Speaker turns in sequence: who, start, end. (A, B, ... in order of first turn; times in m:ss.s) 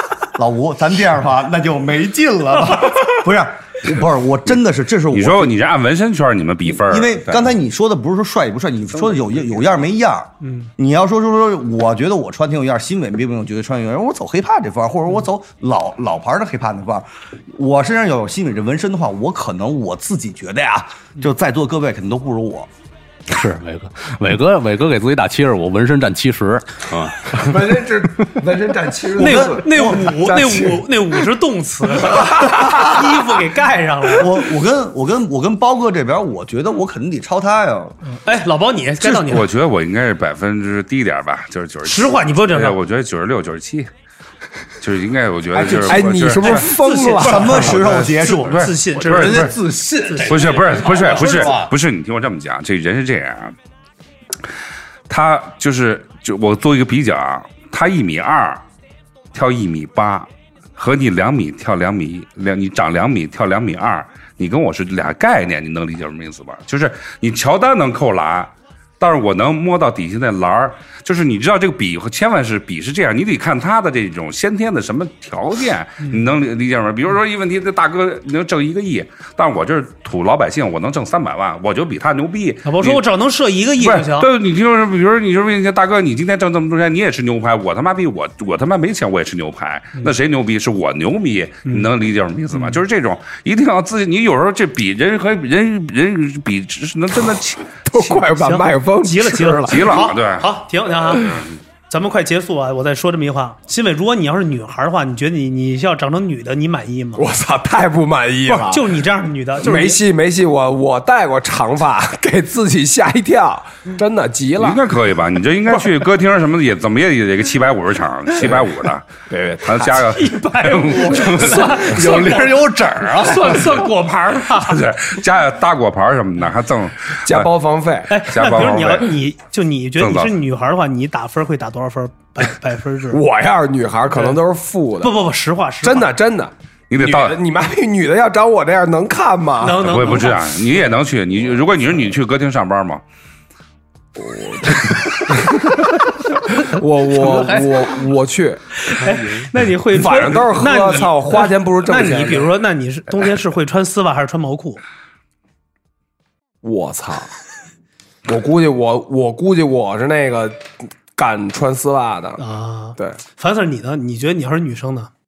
0:00.3-0:05.6 A
0:05.1-0:07.5 B
0:06.8-0:22.7 A
0:10.4-0:10.7 C
0:23.3-0:27.6 D
0:27.3-0:30.9 E
0:29.2-0:29.7 A
0:29.2-0:34.4 C
0:32.1-0:32.6 E
0:34.2-0:38.0 A
0:38.1-0:39.5 C
0:39.0-0:43.9 B
0:41.8-0:42.8 C
0:44.8-0:46.7 B
0:45.5-0:47.9 E
0:46.3-0:51.6 C
0:47.2-0:48.7 A
0:48.4-0:49.7 B
0:48.9-0:51.8 D
0:50.3-0:53.6 B
0:55.1-0:58.6 B
0:59.3-1:23.0 B
1:22.6-1:24.3 C
1:23.8-1:38.2 B
1:37.8-1:40.0 E
1:38.4-1:41.4 C
1:39.7-1:40.6 B
1:41.2-1:41.5 B
1:41.9-1:47.3 C
1:47.2-1:49.0 E
1:48.5-1:50.0 C
1:49.6-1:54.8 E
1:54.6-1:59.1 B
1:59.3-2:00.1 E
1:59.6-2:01.7 B
2:00.1-2:02.6 C
2:01.2-2:03.9 D
2:03.2-2:04.9 C
2:04.5-2:07.5 B
2:07.2-2:08.2 E
2:08.1-2:13.2 C
2:08.2-2:09.2 B
2:10.0-2:10.4 B
2:13.1-2:15.2 E
2:15.0-2:16.1 C
2:15.8-2:20.0 E
2:16.9-2:17.4 B
2:19.6-2:20.4 C
2:19.8-2:23.0 B
2:24.2-2:28.8 E
2:27.2-2:27.7 D
2:28.8-2:34.8 C
2:29.0-2:29.5 D
2:29.9-2:32.5 E
2:36.6-2:37.3 E
2:38.3-2:42.4 E
2:42.4-2:45.1 C